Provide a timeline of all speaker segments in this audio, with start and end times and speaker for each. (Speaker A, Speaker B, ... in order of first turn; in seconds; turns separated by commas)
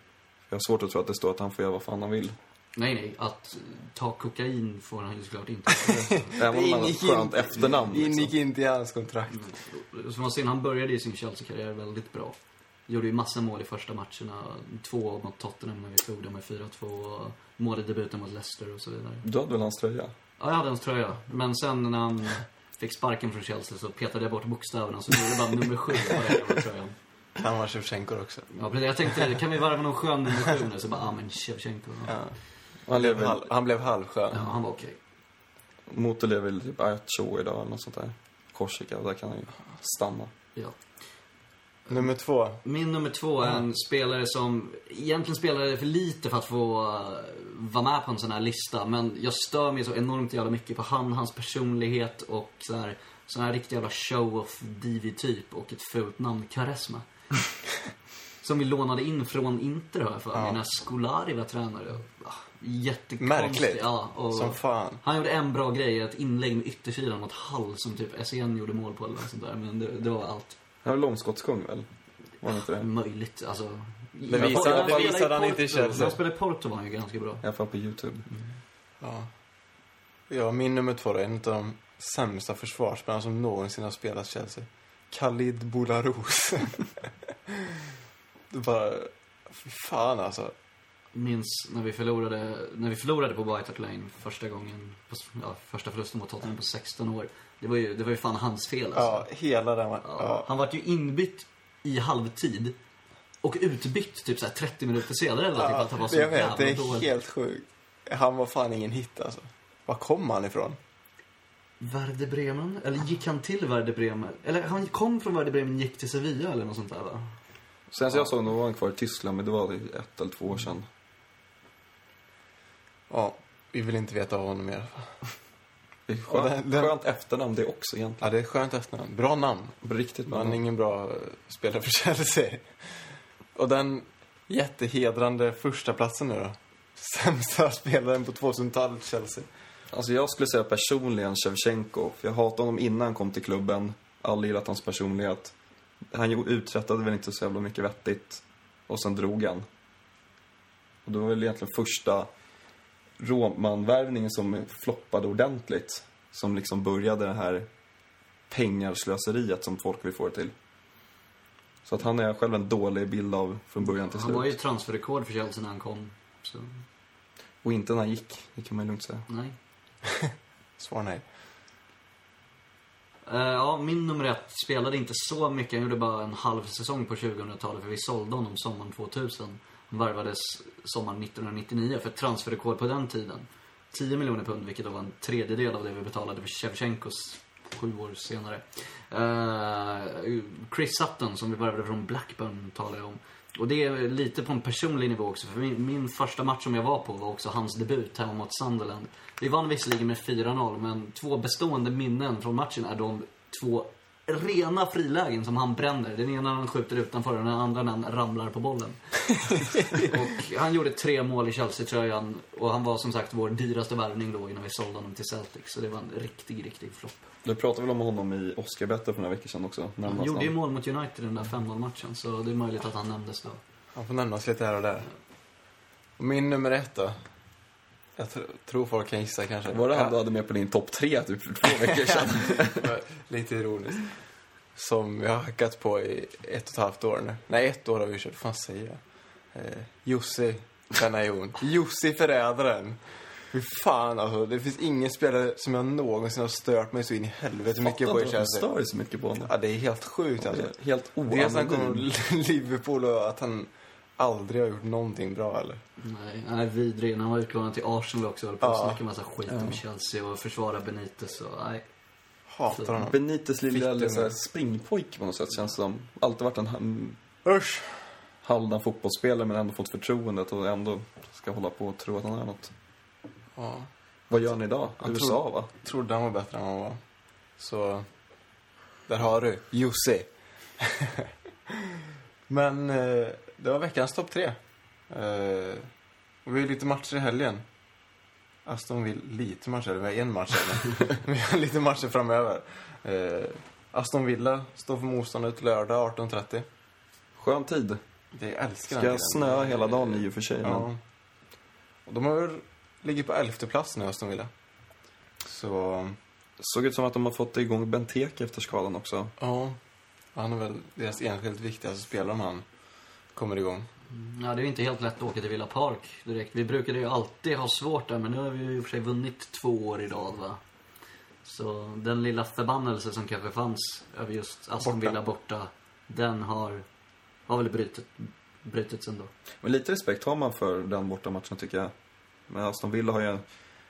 Speaker A: 0.5-2.3, Speaker B: 2.8-6.3, Speaker C: 5.8-9.5, Speaker A: 6.4-8.3, Speaker B: 9.4-12.3, Speaker B: 12.9-19.2, Speaker A: 19.2-20.1, Speaker B: 20.4-26.9, Speaker C: 27.4-28.5, Speaker B: 28.5-32.2, Speaker C: 32.1-32.4, Speaker A: 32.9-33.5, Speaker C: 32.9-34.5, Speaker B: 34.3-35.0, Speaker A: 35.9-40.3, Speaker C: 41.9-42.6, Speaker B: 42.6-57.0, Speaker B: 58.4-70.6, Speaker C: 63.2-65.0, Speaker A: 70.8-71.9, Speaker A: 72.4-72.9, Speaker B: 72.5-77.4, Speaker C: 74.3-76.2, Speaker A: 74.3-75.2, Speaker A: 77.4-78.2, Speaker C: 79.0-79.3, Speaker C: 80.3-86.9, Speaker C: 88.5-90.5, Speaker B: 91.1-99.3, Speaker C: 98.9-100.5, Speaker B: 100.0-102.8, Speaker B: 103.4-107.1, Speaker C: 105.5-110.8, Speaker B: 111.8-117.3, Speaker A: 117.9-120.9, Speaker C: 123.1-125.2, Speaker A: 126.1-128.2, Speaker C: 126.3-127.0, Speaker C: 128.2-133.0, Speaker A: 129.8-130.6, Speaker C: 133.5-139.5, Speaker A: 139.9-145.5, Speaker A: 146.1-149.6, Speaker A: 151.0-152.3, Speaker A: 153.2-157.7, Speaker A: 158.5-160.5, Speaker A: 161.8-164.5, Speaker B: 163.9-166.8, Speaker A: 167.6-169.2, Speaker B: 169.3-169.5, Speaker C: 170.8-171.2, Speaker B: 173.2-217.3, Speaker C: 209.4-210.1, Speaker A: 217.4-220.5, Speaker B: 220.0-223.6, Speaker C: 223.9-225.1, Speaker C: 226.2-227.2, Speaker C: 228.2-230.2, Speaker A: 229.7-232.9, Speaker C: 232.5-234.2, Speaker C: 234.7-248.7, Speaker A: 247.8-249.5, Speaker C: 249.4-250.7, Speaker A: 250.5-252.1, Speaker C: 251.3-255.8, Speaker B: 256.0-261.8, Speaker C: 258.6-259.0, Speaker A: 259.5-259.8, Speaker C: 262.5-264.3, Speaker B: 262.7-263.0, Speaker A: 263.0-267.2, Speaker C: 267.4-268.1, Speaker A: 268.4-272.7, Speaker C: 273.6-273.9, Speaker A: 274.3-275.7, Speaker C: 275.0-277.0, Speaker C: 277.6-278.1, Speaker C: 279.1-281.8, Speaker C: 282.5-285.9, Speaker C: 286.4-287.6, Speaker C: 288.6-296.6, Speaker A: 297.4-298.0, Speaker C: 298.3-301.0, Speaker A: 298.9-300.9, Speaker C: 302.1-304.5, Speaker C: 305.4-306.2, Speaker A: 306.6-309.3, Speaker C: 309.4-309.8, Speaker C: 310.3-312.7, Speaker C: 313.3-313.9, Speaker B: 314.1-320.6, Speaker B: 321.4-326.8, Speaker B: 327.5-329.3, Speaker A: 329.6-331.9, Speaker A: 332.5-333.4